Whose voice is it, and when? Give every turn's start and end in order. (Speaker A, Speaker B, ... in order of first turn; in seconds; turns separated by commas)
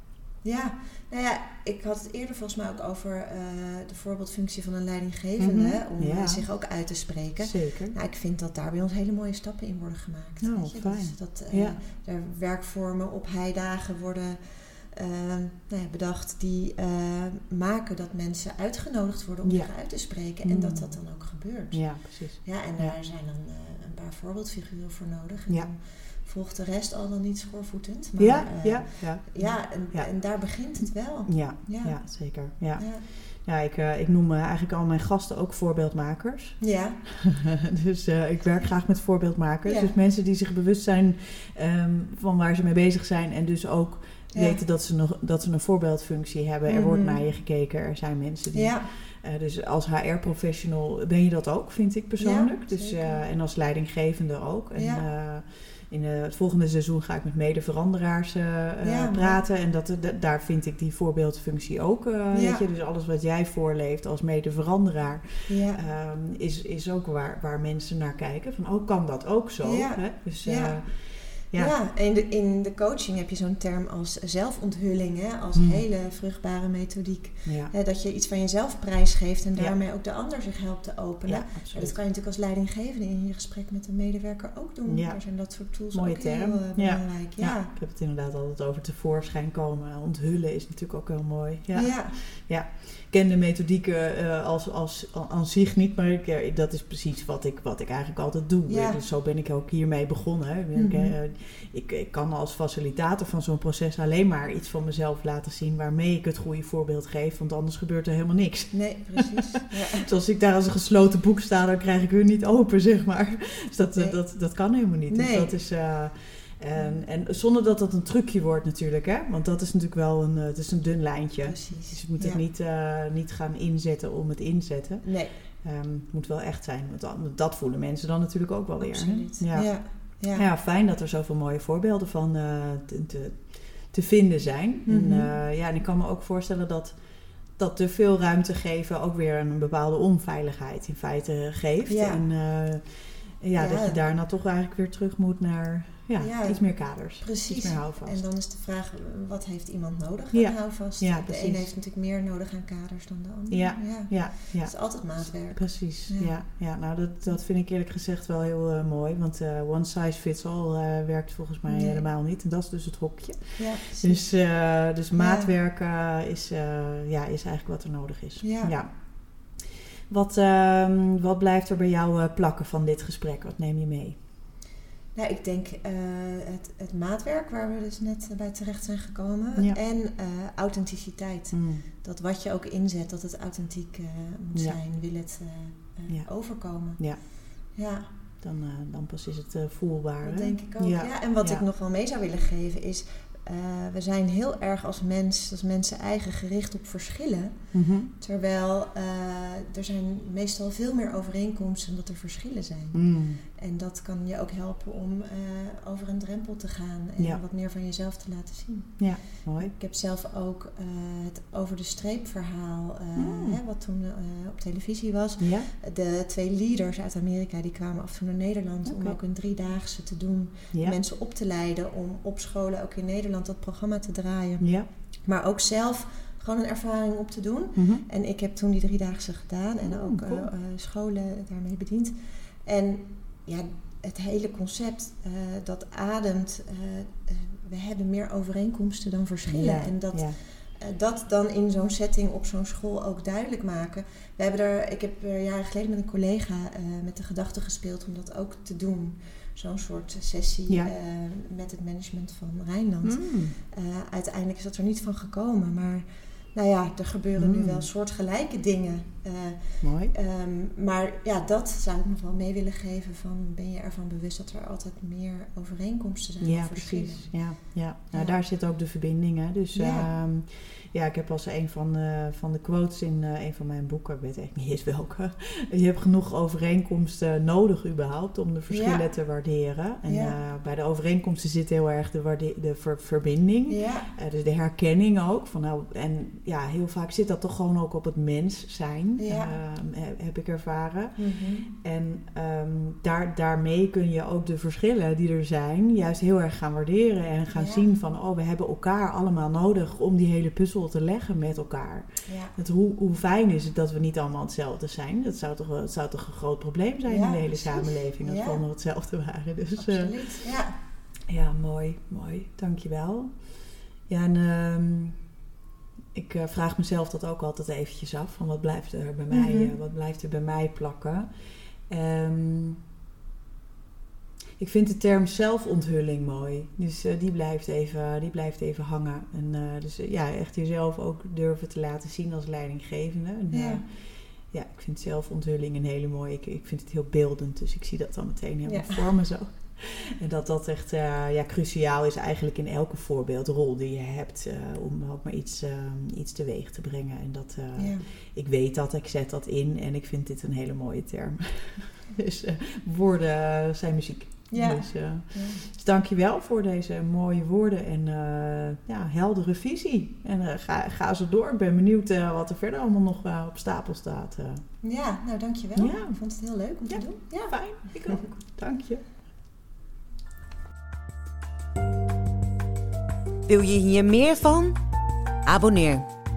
Speaker A: 0.4-32.1, Speaker B: 5.4-6.4, Speaker B: 7.4-7.9, Speaker B: 10.4-11.8, Speaker B: 19.4-19.7, Speaker B: 20.4-21.0, Speaker B: 21.7-22.9, Speaker B: 28.2-30.1, Speaker B: 31.3-71.7, Speaker A: 32.8-33.0, Speaker A: 36.6-37.0, Speaker A: 39.6-39.9, Speaker A: 44.3-44.6, Speaker A: 46.7-47.2, Speaker A: 48.5-48.9, Speaker A: 52.2-53.2, Speaker A: 54.8-55.0, Speaker A: 58.8-59.4, Speaker A: 62.3-62.6, Speaker A: 65.5-65.8, Speaker A: 69.6-87.7, Speaker B: 75.5-75.8, Speaker B: 77.4-77.7, Speaker B: 81.3-82.0, Speaker B: 84.9-85.2, Speaker B: 85.9-129.8, Speaker A: 91.7-92.2, Speaker A: 98.7-99.0, Speaker A: 100.7-101.1, Speaker A: 108.7-110.1, Speaker A: 115.1-115.5, Speaker A: 121.4-122.4, Speaker A: 125.0-125.3, Speaker A: 128.8-130.4, Speaker B: 130.3-148.2, Speaker A: 134.8-135.3, Speaker A: 141.9-142.2, Speaker A: 143.5-144.0, Speaker A: 146.2-156.4, Speaker B: 150.3-151.6, Speaker B: 153.5-174.2, Speaker A: 161.7-162.0, Speaker A: 163.6-164.3, Speaker A: 165.1-165.5, Speaker A: 168.4-168.7, Speaker A: 175.1-188.1, Speaker B: 181.5-181.8, Speaker B: 186.1-187.2, Speaker B: 188.4-191.6, Speaker A: 190.2-224.7, Speaker B: 197.7-198.1, Speaker B: 202.9-203.4, Speaker B: 209.0-209.7, Speaker B: 213.2-213.6, Speaker B: 215.4-215.7, Speaker B: 218.8-219.2, Speaker B: 224.6-224.9, Speaker A: 225.2-267.6, Speaker B: 227.8-228.0, Speaker B: 229.8-230.5, Speaker B: 239.5-240.4, Speaker B: 253.0-253.6, Speaker B: 257.4-257.9, Speaker B: 259.8-260.1, Speaker B: 266.4-310.3, Speaker A: 269.7-270.1, Speaker A: 278.7-279.0, Speaker A: 280.1-280.3, Speaker A: 283.7-284.1, Speaker A: 289.2-289.5, Speaker A: 291.2-291.7, Speaker A: 297.5-297.9, Speaker A: 302.2-302.5, Speaker A: 307.1-308.6, Speaker A: 309.8-310.7, Speaker B: 311.3-315.2, Speaker B: 316.1-321.3, Speaker A: 319.3-319.7, Speaker B: 321.9-322.8, Speaker B: 324.6-364.6, Speaker A: 333.5-333.8, Speaker A: 338.6-339.1, Speaker A: 347.8-348.1, Speaker A: 354.5-355.6, Speaker A: 364.8-368.2, Speaker B: 365.8-366.2, Speaker B: 366.9-369.0, Speaker C: 373.5-374.8, Speaker C: 375.4-376.1